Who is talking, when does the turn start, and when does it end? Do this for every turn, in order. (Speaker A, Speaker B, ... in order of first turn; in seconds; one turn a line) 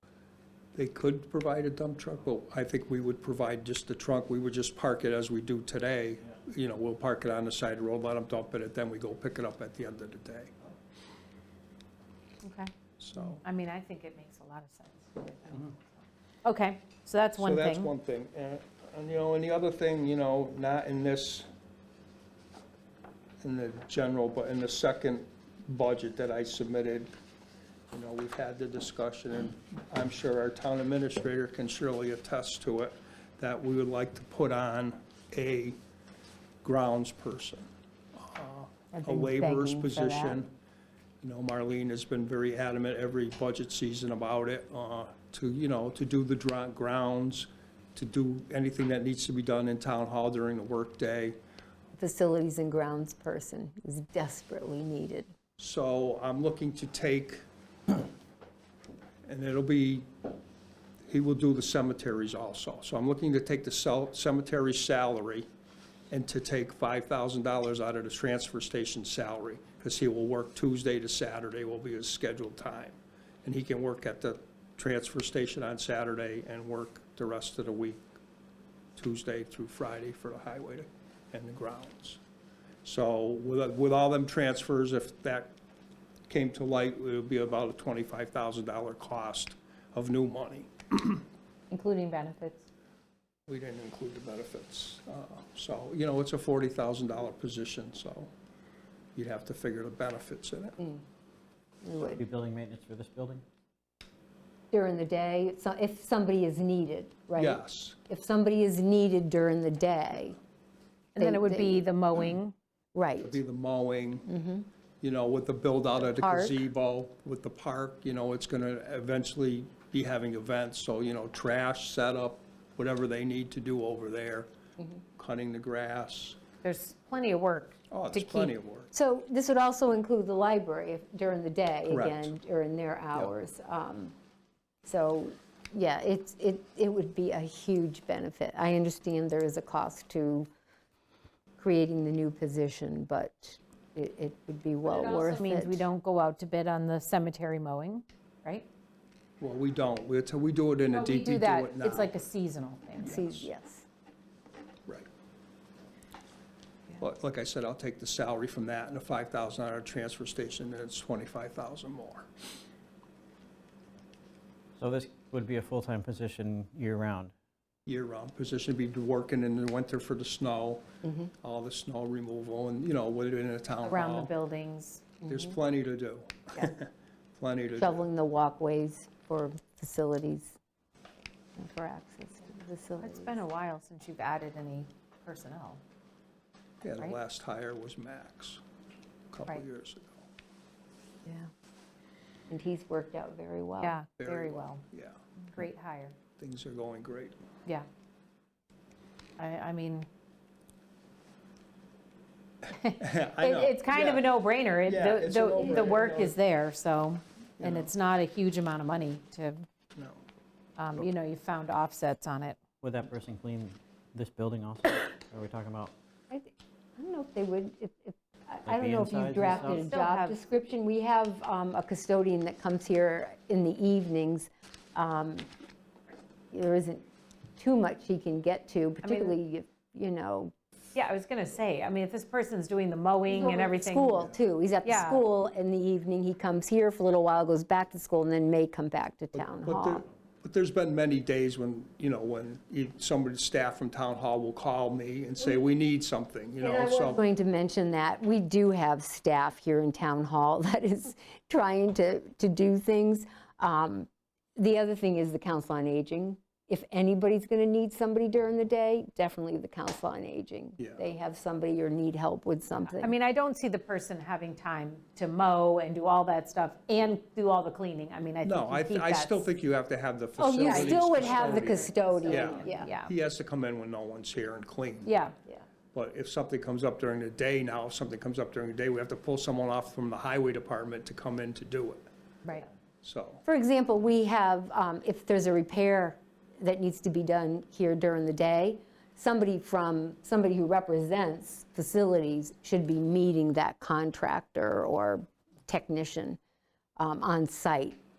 Speaker A: 0.7-10.5
Speaker B: 12.4-12.7
Speaker A: 13.0-13.4
Speaker B: 13.2-17.9
Speaker A: 17.4-21.5
Speaker A: 23.4-27.1
Speaker A: 27.9-35.8
Speaker A: 36.6-40.5
Speaker C: 39.0-40.4
Speaker A: 41.2-51.4
Speaker C: 52.0-55.3
Speaker A: 55.6-58.0
Speaker A: 59.2-60.1
Speaker A: 61.1-65.5
Speaker A: 66.1-78.0
Speaker A: 79.0-82.2
Speaker A: 82.8-85.5
Speaker A: 86.3-91.2
Speaker B: 91.8-92.5
Speaker A: 93.5-98.3
Speaker A: 99.2-100.8
Speaker C: 101.8-102.2
Speaker D: 102.2-103.4
Speaker C: 104.7-110.4
Speaker A: 107.4-108.0
Speaker B: 111.2-112.5
Speaker C: 111.2-111.8
Speaker C: 112.9-113.4
Speaker A: 113.2-114.3
Speaker C: 114.3-114.7
Speaker A: 115.0-124.5
Speaker C: 116.0-116.6
Speaker A: 125.2-126.4
Speaker B: 126.6-128.5
Speaker A: 127.9-128.9
Speaker C: 128.9-134.2
Speaker A: 131.9-132.3
Speaker C: 134.8-140.5
Speaker C: 141.6-145.8
Speaker B: 144.9-148.7
Speaker A: 149.4-152.2
Speaker B: 150.9-153.3
Speaker C: 153.0-153.9
Speaker A: 153.0-153.5
Speaker A: 157.0-162.3
Speaker D: 164.8-167.3
Speaker A: 167.9-174.3
Speaker C: 171.0-171.3
Speaker B: 173.8-175.1
Speaker A: 175.2-178.0
Speaker C: 177.8-180.6
Speaker C: 181.6-183.4
Speaker B: 183.0-185.8
Speaker A: 186.8-188.6
Speaker A: 189.3-190.3
Speaker C: 191.2-191.5
Speaker C: 192.5-194.0
Speaker B: 193.8-194.8
Speaker A: 194.2-195.2
Speaker B: 195.5-196.2
Speaker A: 196.4-197.4
Speaker B: 199.4-200.1
Speaker B: 202.7-209.7
Speaker A: 203.0-204.3
Speaker A: 204.8-206.4
Speaker C: 205.5-205.9
Speaker A: 207.6-207.9
Speaker A: 209.9-210.2
Speaker B: 210.8-212.6
Speaker D: 212.8-215.9
Speaker C: 216.3-225.5
Speaker D: 218.7-219.9
Speaker B: 219.5-220.4
Speaker C: 226.5-227.1
Speaker C: 227.6-230.5
Speaker B: 229.0-229.3
Speaker B: 230.9-234.3
Speaker C: 233.3-240.1
Speaker B: 234.8-235.3
Speaker A: 239.4-247.2
Speaker C: 246.6-263.1
Speaker B: 262.9-269.5
Speaker A: 268.4-275.1
Speaker C: 270.4-272.9
Speaker B: 270.5-273.1
Speaker B: 275.1-275.4
Speaker A: 275.9-282.1
Speaker A: 283.0-283.4
Speaker C: 283.4-296.4
Speaker C: 297.0-298.0